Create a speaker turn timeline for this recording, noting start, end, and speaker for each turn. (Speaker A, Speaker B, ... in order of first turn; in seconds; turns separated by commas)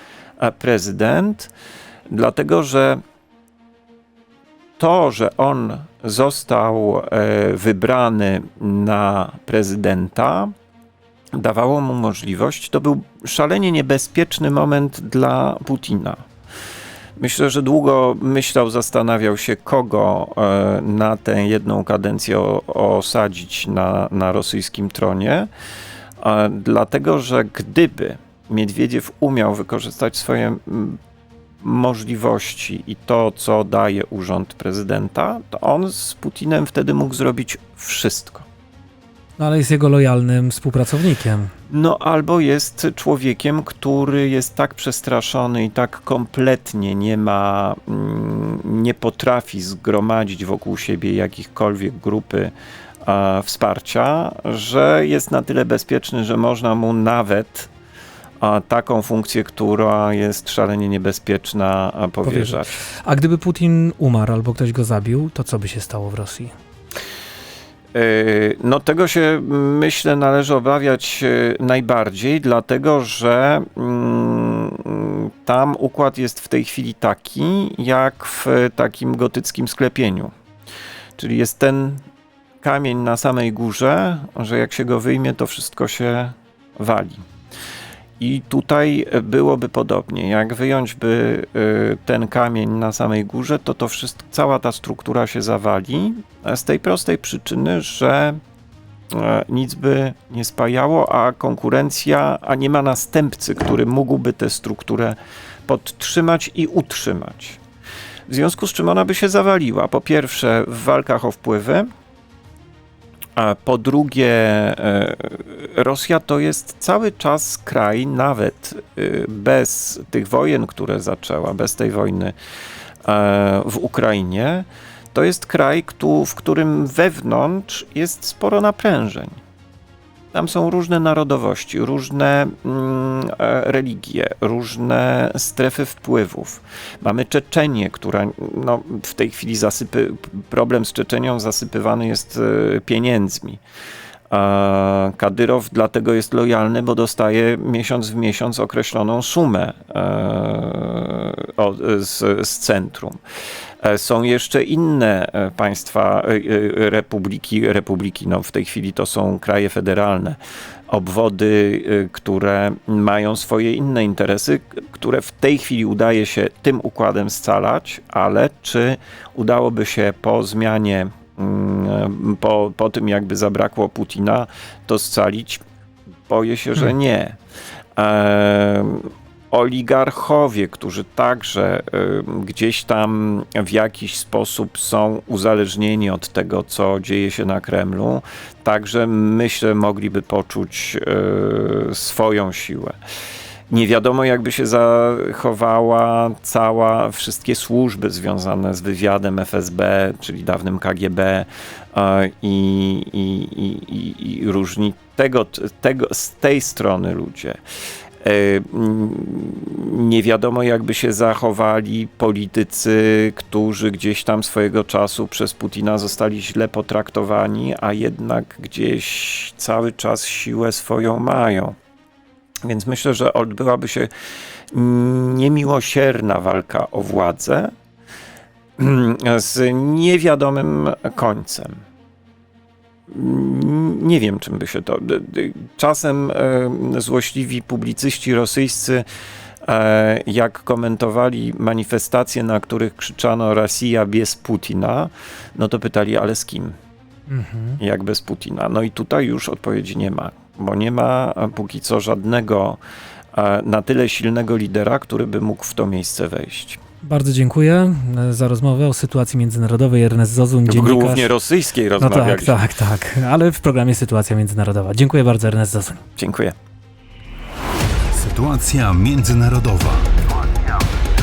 Speaker A: 0.4-1.5, Speaker A: 2.1-3.0, Speaker A: 4.8-10.5, Speaker A: 11.3-16.2, Speaker A: 17.2-25.5, Speaker A: 26.2-31.0, Speaker A: 31.6-38.5, Speaker B: 39.4-41.5, Speaker A: 41.7-52.5, Speaker A: 53.0-57.7, Speaker A: 58.4-62.8, Speaker B: 62.2-66.5, Speaker A: 67.9-80.3, Speaker A: 81.2-82.0, Speaker A: 82.6-87.3, Speaker A: 88.2-98.4, Speaker A: 99.1-107.6, Speaker A: 108.3-111.9, Speaker A: 113.4-122.3, Speaker A: 123.0-129.4, Speaker A: 130.3-143.6, Speaker A: 144.3-153.2, Speaker A: 153.8-175.6, Speaker A: 176.3-177.4, Speaker A: 178.0-192.9, Speaker A: 193.7-207.6, Speaker A: 208.2-221.8, Speaker A: 222.6-224.1, Speaker A: 224.7-227.7, Speaker A: 228.8-231.8, Speaker A: 233.1-239.1, Speaker A: 239.6-246.8, Speaker B: 247.3-247.8, Speaker A: 247.8-252.8, Speaker A: 253.3-256.8, Speaker B: 257.0-261.3, Speaker A: 260.7-262.7, Speaker B: 262.0-266.0, Speaker A: 266.2-266.6, Speaker C: 268.1-270.1